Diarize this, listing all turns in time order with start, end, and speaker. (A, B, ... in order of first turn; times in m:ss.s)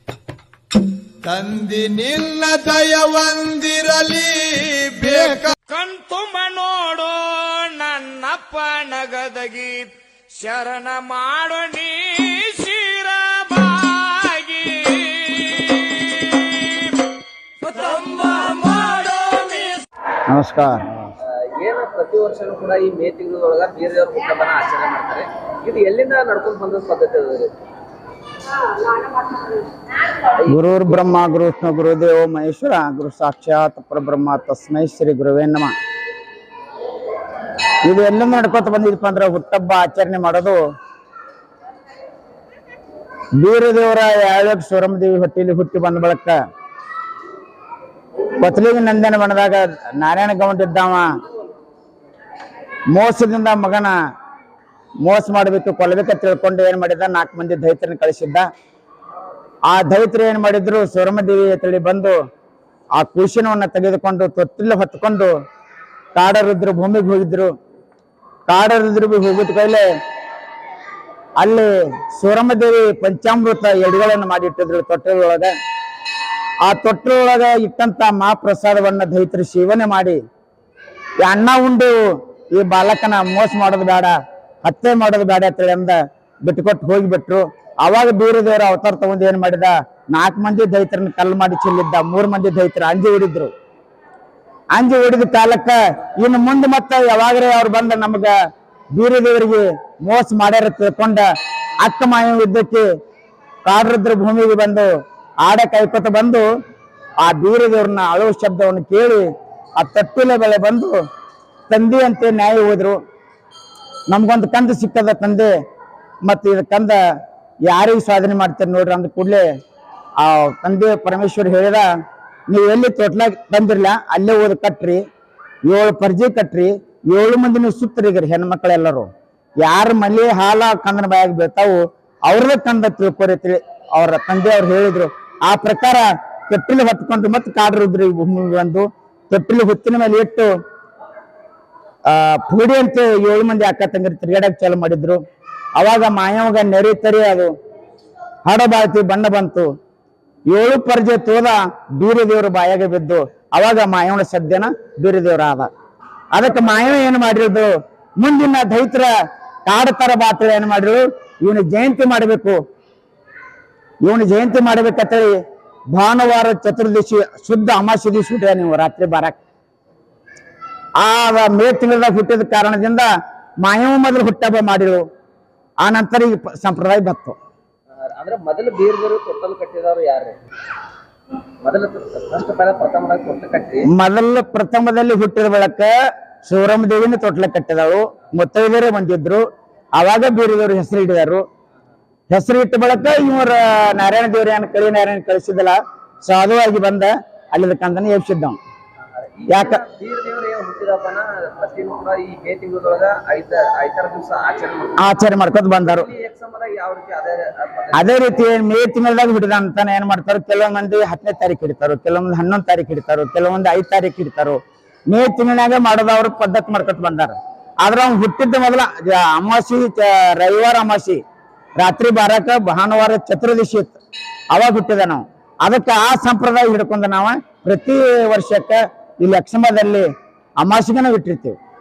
0:01.2-0:05.6 A
0:05.2-0:16.8 B
0:17.6-0:19.8 B
0:20.3-0:21.0 C
0:21.4-0:27.5 D
0:30.4-0:30.8 D
0:30.5-0:35.7 C
0:37.8-0:40.6 C
0:43.4-0:46.4 C
0:48.4-0:51.1 C
0:52.9-0:54.0 C
0:55.0-0:58.5 C
0:59.7-1:02.2 C
1:03.0-1:05.4 C
1:06.2-1:07.5 C
1:08.5-1:09.9 C
1:11.4-1:15.5 C
1:16.6-1:20.2 C
1:21.2-1:33.5 C
1:34.7-1:38.4 C
1:38.9-1:41.3 C
1:41.8-1:42.9 C
1:43.6-1:44.9 C
1:45.4-1:46.4 C
1:47.2-1:51.0 C
1:51.7-1:53.0 C
1:54.1-1:55.5 C
1:56.2-1:57.0 C
1:57.6-1:59.5 C
2:00.2-2:01.9 C
2:02.5-2:05.0 C
2:05.7-2:09.1 C
2:09.6-2:20.5 C
2:22.1-2:25.2 C
2:25.8-2:27.5 C
2:28.4-2:29.7 C
2:30.5-2:35.7 C
2:36.3-2:39.1 C
2:39.7-2:42.6 C
2:44.0-2:45.4 C
2:45.9-2:49.4 C
2:51.0-2:53.1 C
2:53.6-2:55.0 C
2:55.8-2:57.4 C
2:58.1-3:00.4 D
3:01.6-3:03.9 D
3:03.9-3:09.4 C
3:10.0-3:11.4 C
3:12.3-3:18.6 C
3:19.2-3:25.1 D
3:19.5-3:19.8 C
3:25.0-3:26.1 C
3:25.8-3:28.1 D
3:28.0-3:34.6 C
3:35.1-3:41.2 C
3:41.8-3:44.0 C
3:44.5-3:50.1 C
3:50.6-3:51.6 C